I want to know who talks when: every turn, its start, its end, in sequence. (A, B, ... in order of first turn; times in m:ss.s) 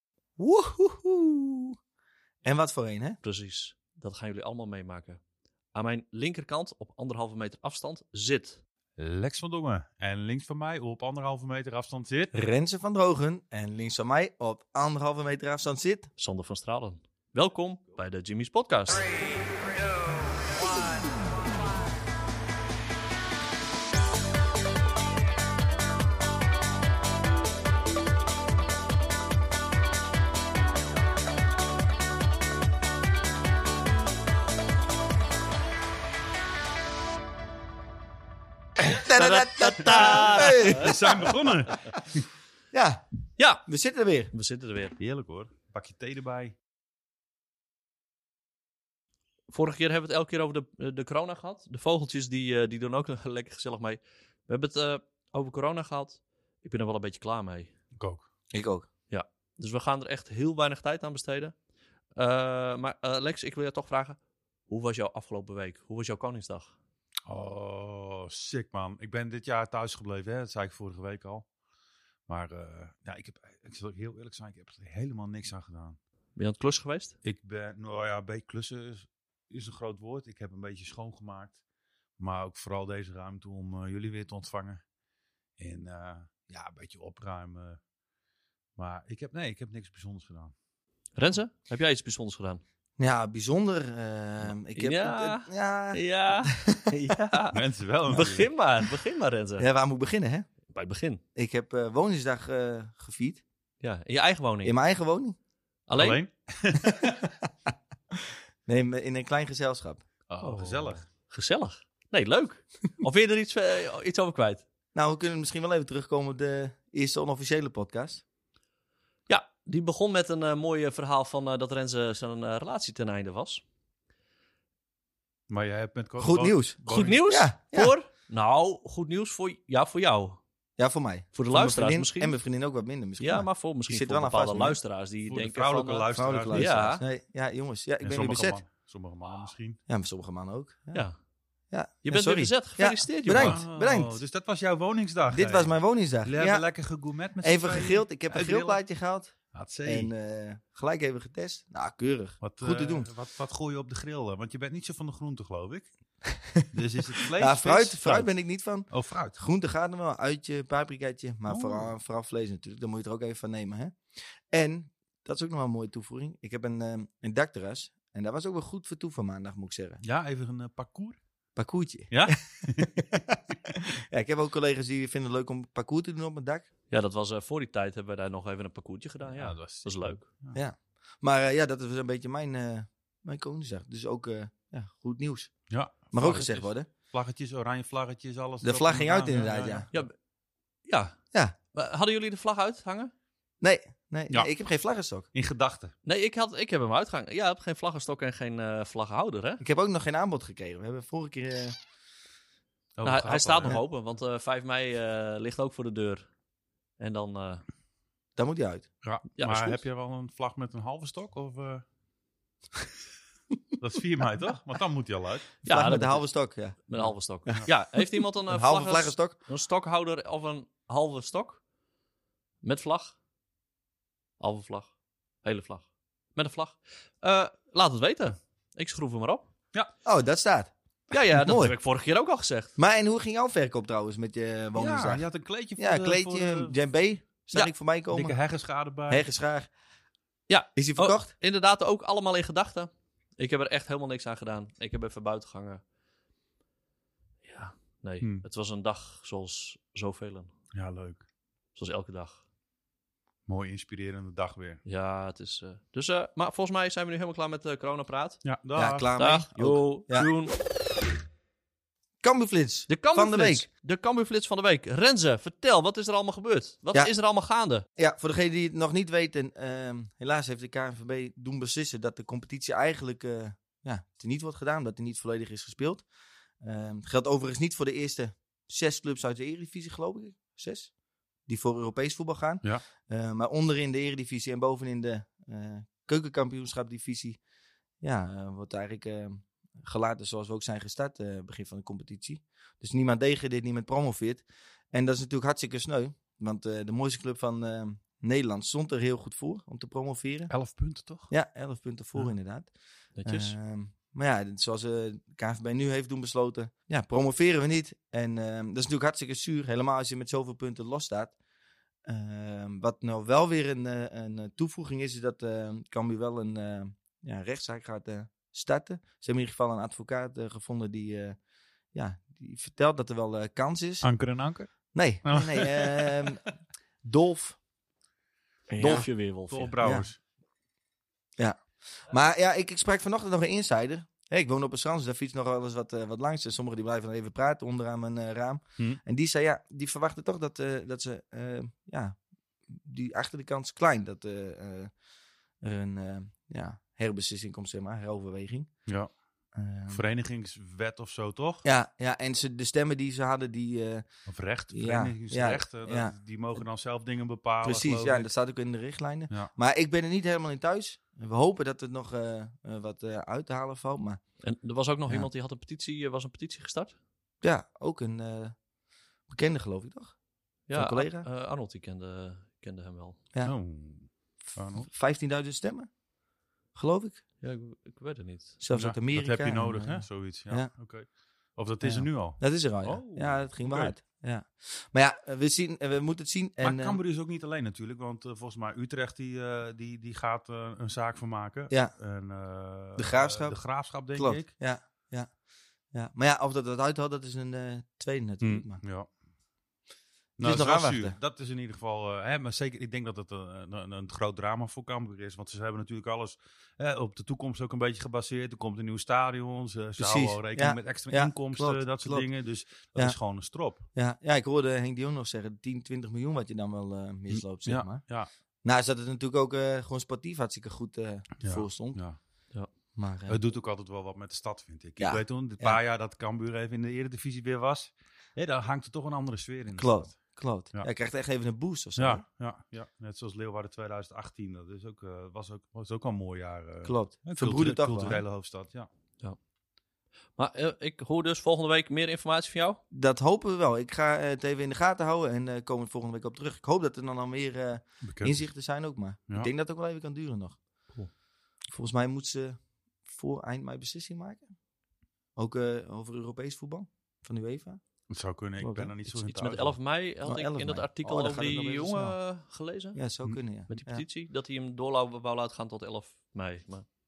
0:00.4-0:01.8 A
0:02.4-0:03.2 A
0:03.2-0:05.2 B
0:05.7-0:08.6 B
0:09.0-0:12.3 C
0:12.3-0:16.1 A
0:16.2-0:19.1 B
0:38.8-0:41.3 A
0:39.1-0:41.2 B
0:40.0-0:42.2 C
0:42.7-0:43.0 A
0:43.4-0:43.6 B
0:43.6-0:44.3 A
0:44.3-0:45.0 B
0:45.0-0:46.5 C
0:49.5-0:57.7 B
0:58.0-0:58.2 C
0:58.5-0:58.9 A
0:59.1-1:01.5 B
1:02.1-1:06.7 B
1:07.2-1:11.5 C
1:12.3-1:16.0 C
1:16.4-1:17.2 B
1:17.2-1:21.6 C
1:22.2-1:24.8 C
1:25.6-1:27.8 C
1:28.8-1:30.5 C
1:31.2-1:32.6 B
1:33.0-1:36.9 A
1:34.7-1:39.7 B
1:37.5-1:38.5 C
1:38.1-1:38.3 A
1:39.6-1:40.5 A
1:40.7-1:41.2 B
1:41.4-1:43.4 A
1:43.8-1:44.7 B
1:44.6-1:45.4 A
1:45.9-1:46.2 B
1:46.0-1:47.2 C
1:46.9-1:47.5 A
1:48.6-1:50.0 A
1:50.3-1:51.0 C
1:50.4-1:54.6 B
1:54.9-1:58.2 A
1:59.3-2:03.6 B
2:05.5-2:07.2 C
2:06.2-2:07.9 A
2:06.8-2:10.4 B
2:10.8-2:14.8 A
2:11.3-2:12.4 B
2:13.2-2:17.0 B
2:15.2-2:16.9 C
2:16.1-2:18.6 A
2:18.0-2:19.8 C
2:19.9-2:21.0 A
2:20.9-2:21.2 B
2:21.7-2:24.2 A
2:22.0-2:23.6 B
2:23.3-2:28.8 C
2:25.3-2:26.7 A
2:27.4-2:33.1 A
2:29.5-2:30.1 C
2:32.4-2:35.9 C
2:36.6-2:38.3 C
2:37.4-2:50.0 A
2:38.9-2:39.3 C
2:41.5-2:41.9 C
2:50.0-2:51.2 C
2:51.6-2:56.6 A
2:52.1-2:52.9 C
2:56.9-3:00.2 B
2:59.3-3:00.6 C
3:00.5-3:05.6 A
3:05.7-3:09.9 C
3:06.1-3:06.9 A
3:08.6-3:09.9 A
3:10.8-3:11.2 B
3:11.7-3:13.1 B
3:13.6-3:15.3 A
3:15.3-3:15.9 C
3:16.0-3:19.6 B
3:19.6-3:21.8 A
3:23.0-3:23.8 C
3:23.0-3:26.3 B
3:27.0-3:27.6 B
3:28.4-3:28.9 A
3:29.0-3:31.8 C
3:29.4-3:29.8 B
3:33.8-3:35.5 C
3:35.6-3:36.8 A
3:35.6-3:36.2 B
3:36.8-3:41.6 B
3:37.0-3:37.7 C
3:38.5-3:39.4 A
3:42.6-3:43.2 B
3:44.4-3:44.9 B
3:45.4-3:49.5 B
3:50.0-3:51.8 A
3:51.1-3:52.8 B
3:52.8-3:55.2 A
3:54.7-3:56.7 C
3:55.8-3:58.4 A
3:58.1-3:59.3 C
3:59.1-3:59.7 A
4:00.5-4:05.8 B
4:00.8-4:01.3 A
4:07.4-4:10.5 B
4:10.7-4:11.2 C
4:11.8-4:12.4 B
4:13.5-4:14.8 C
4:14.8-4:18.4 B
4:18.4-4:19.1 C
4:18.7-4:20.3 A
4:19.2-4:20.5 B
4:22.2-4:23.7 A
4:22.9-4:27.8 B
4:28.0-4:36.0 A
4:36.6-4:40.9 A
4:41.4-4:47.4 A
4:48.0-5:00.5 A
5:00.5-5:01.3 C
5:01.3-5:02.7 A
5:03.1-5:03.6 B
5:03.2-5:11.3 A
5:12.0-5:21.4 A
5:21.9-5:24.1 A
5:24.0-5:24.7 C
5:24.9-5:26.4 A
5:25.2-5:26.3 C
5:27.0-5:27.6 A
5:28.7-5:29.7 B
5:28.7-5:29.1 A
5:28.9-5:30.2 C
5:29.8-5:30.1 A
5:31.4-5:42.2 A
5:42.7-5:44.9 A
5:45.6-5:48.7 A
5:48.9-5:49.1 C
5:49.5-5:50.0 A
5:49.9-5:51.6 C
5:51.6-5:54.0 A
5:54.3-5:58.3 C
5:54.7-5:56.1 A
5:57.6-6:04.2 A
6:04.4-6:07.0 B
6:07.4-6:08.6 A
6:09.3-6:10.2 A
6:10.7-6:13.2 B
6:10.7-6:11.3 A
6:13.4-6:14.9 C
6:14.8-6:15.9 A
6:16.7-6:17.2 A
6:17.4-6:18.6 B
6:18.6-6:20.7 A
6:18.7-6:23.9 C
6:21.8-6:27.0 A
6:26.6-6:34.5 C
6:33.0-6:35.3 A
6:35.9-6:38.8 A
6:38.4-6:39.1 C
6:40.4-6:53.8 C
6:40.4-6:41.2 A
6:50.0-6:52.3 A
6:53.9-6:58.0 A
6:57.3-6:58.3 C
6:58.6-7:02.0 A
7:01.4-7:02.2 C
7:03.0-7:03.4 A
7:03.3-7:10.2 C
7:05.0-7:05.8 A
7:09.8-7:12.2 A
7:12.0-7:18.9 C
7:16.8-7:18.2 A
7:20.4-7:22.8 B
7:22.9-7:30.6 A
7:28.0-7:28.5 C
7:31.7-7:34.5 A
7:35.4-7:37.8 A
7:38.1-7:39.8 C
7:38.6-7:38.9 A
7:39.2-7:43.0 B
7:40.2-7:42.2 A
7:42.9-7:44.0 A
7:43.7-7:46.8 B